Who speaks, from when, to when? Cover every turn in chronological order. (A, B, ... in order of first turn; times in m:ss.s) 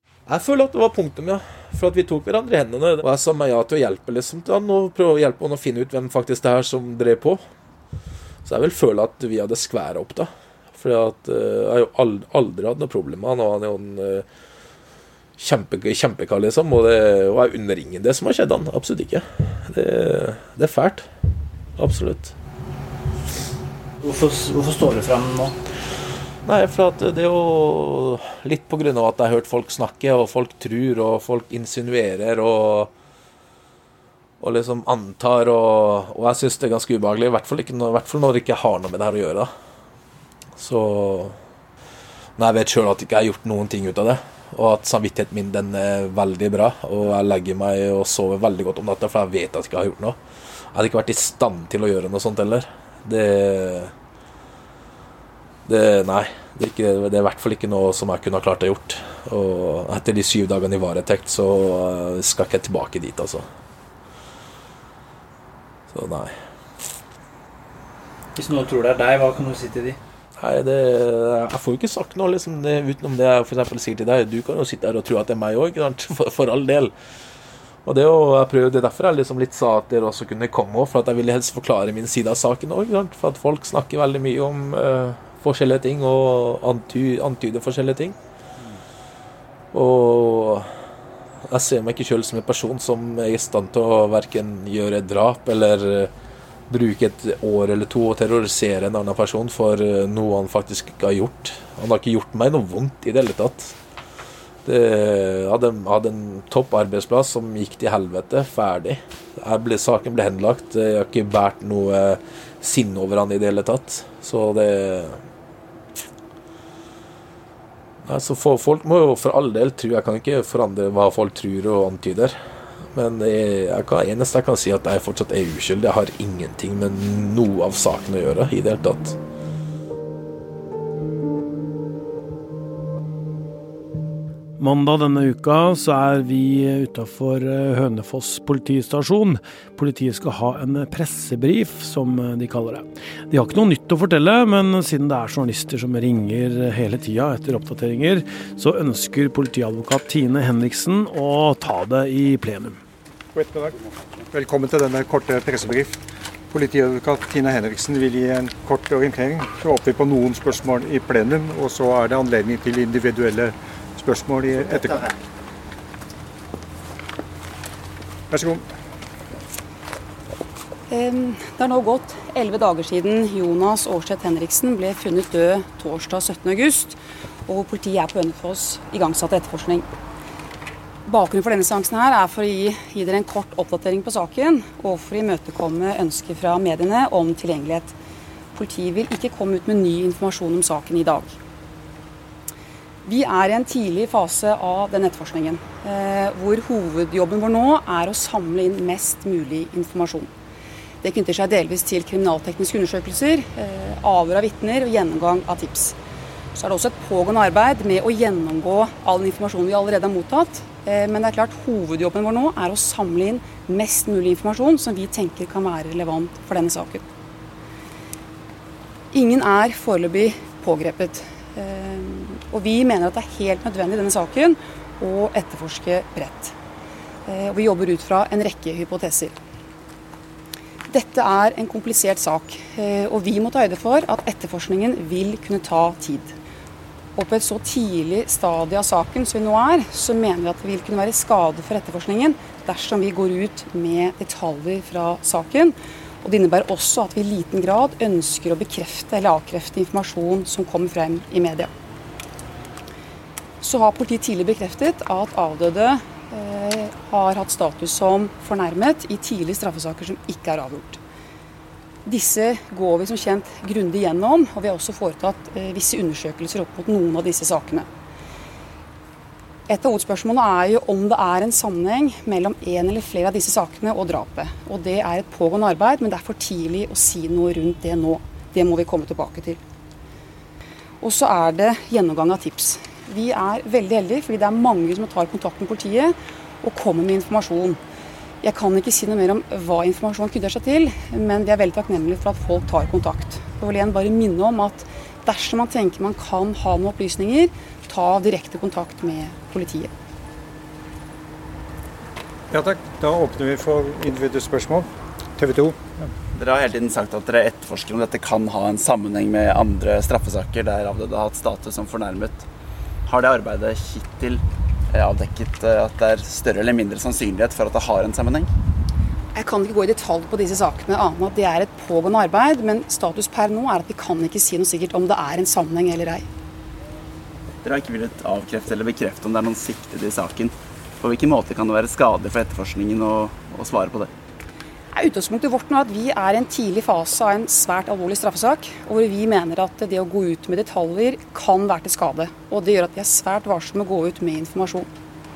0:00.3-0:07.4 A
0:08.4-0:14.2 A
0:15.4-0:21.1 A
0:21.8-0:22.3 A
0:24.0-0:25.6 B
0:26.4-0:32.9 A
0:34.4-0:39.5 A
0:40.6-0:41.4 A
0:42.4-0:50.2 A
0:50.7-0:53.9 A
0:55.6-1:03.4 A
1:05.9-1:06.3 A
1:08.3-1:10.0 B
1:10.4-1:16.9 A
1:17.8-1:28.2 A
1:29.7-1:30.7 A
1:31.5-1:36.1 A
1:36.7-1:43.8 A
1:44.6-1:55.2 A
1:58.0-2:02.4 A
2:02.9-2:09.2 A
2:14.6-2:32.8 C
2:33.3-2:33.8 D
2:34.3-2:36.0 D
2:36.5-2:45.1 D
2:48.3-2:48.6 D
2:50.9-2:59.8 E
3:01.0-3:07.9 E
3:08.5-3:11.4 E
3:13.0-3:20.3 E
3:21.0-3:25.9 E
3:26.5-3:37.0 E
3:39.1-3:46.5 E
3:47.2-3:49.3 E
3:50.9-3:56.3 E
3:57.1-4:11.7 E
4:13.6-4:21.0 E
4:22.0-4:27.9 E
4:29.7-4:39.6 E
4:41.0-4:47.8 E
4:48.4-4:59.9 E
5:02.5-5:04.9 D
5:05.4-5:06.0 D
5:06.3-5:12.4 F
5:13.0-5:18.5 F
5:19.3-5:26.2 E
5:27.6-5:34.1 F
5:34.9-5:44.9 E